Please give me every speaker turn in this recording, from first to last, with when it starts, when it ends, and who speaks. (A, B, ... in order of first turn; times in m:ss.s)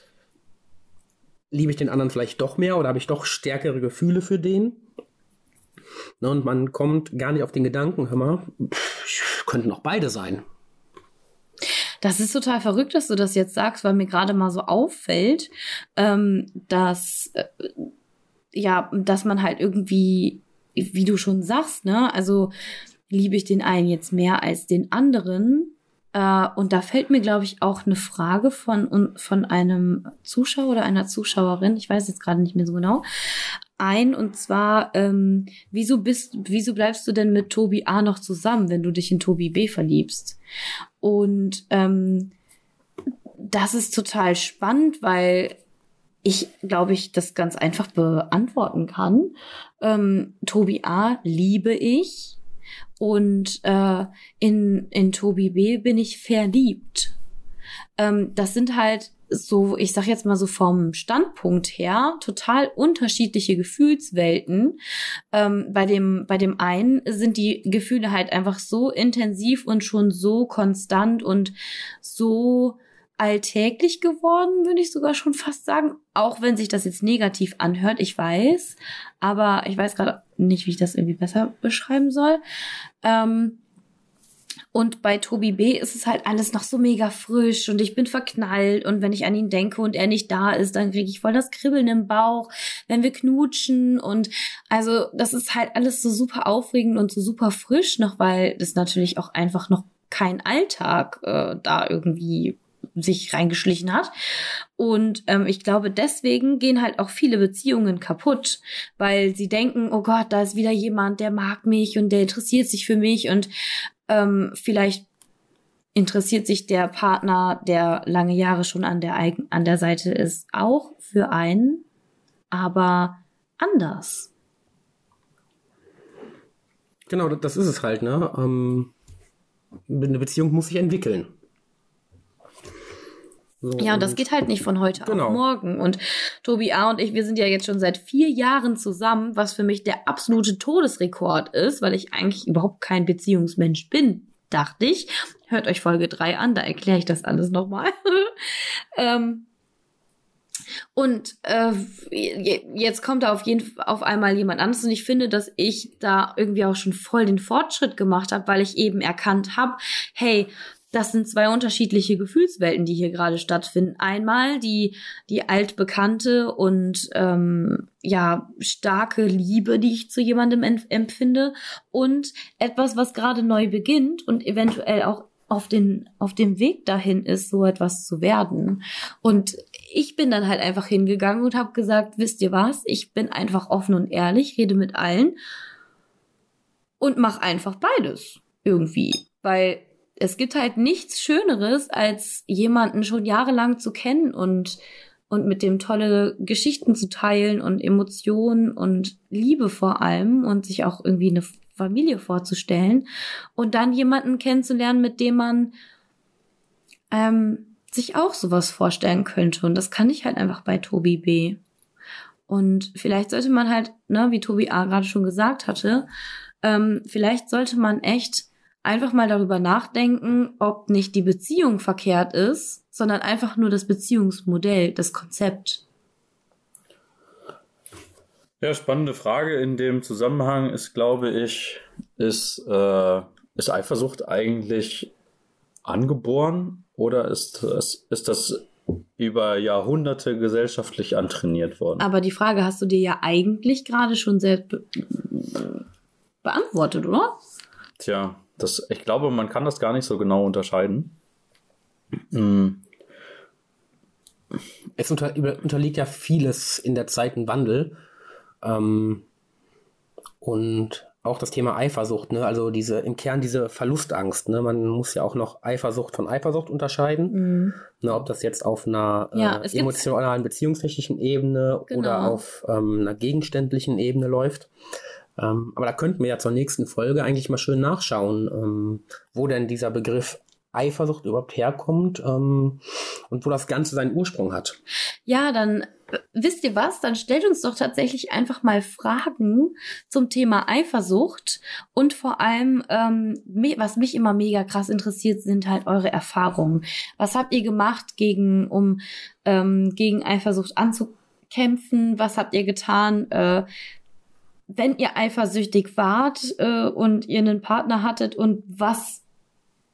0:01.5-0:04.8 A
0:06.2-0:10.4 A
0:12.0-0:17.7 B
0:18.5-0:22.5 B
0:23.1-0:33.0 B
0:33.8-0:40.4 B
0:41.0-0:42.3 B
0:43.4-0:45.6 B
0:46.2-0:52.4 B
0:53.0-0:57.1 B
0:58.0-1:04.8 B
1:05.3-1:22.4 B
1:23.0-1:23.6 B
1:24.7-1:44.1 B
1:44.8-1:53.5 B
1:54.1-1:55.1 B
1:56.0-2:01.8 B
2:02.5-2:04.3 B
2:07.1-2:08.9 A
2:09.9-2:11.3 A
2:13.6-2:14.2 A
2:13.8-2:28.3 B
2:15.0-2:15.4 A
2:29.0-2:29.5 B
2:31.0-3:05.4 B
3:07.0-3:25.7 B
3:27.1-3:31.6 B
3:32.5-3:36.1 B
3:36.6-3:45.8 B
3:48.6-3:55.1 C
3:55.8-4:02.1 C
4:02.0-4:05.8 B
4:06.4-4:07.4 B
4:08.0-4:11.2 C
4:12.3-4:12.8 C
4:15.0-4:18.0 A
4:18.6-4:19.2 A
4:20.4-4:27.4 A
4:27.3-4:27.8 B
4:28.0-4:34.7 A
4:29.4-4:30.1 B
4:31.9-4:32.4 B
4:35.4-4:44.8 A
4:45.3-5:03.7 B
5:04.7-5:09.2 B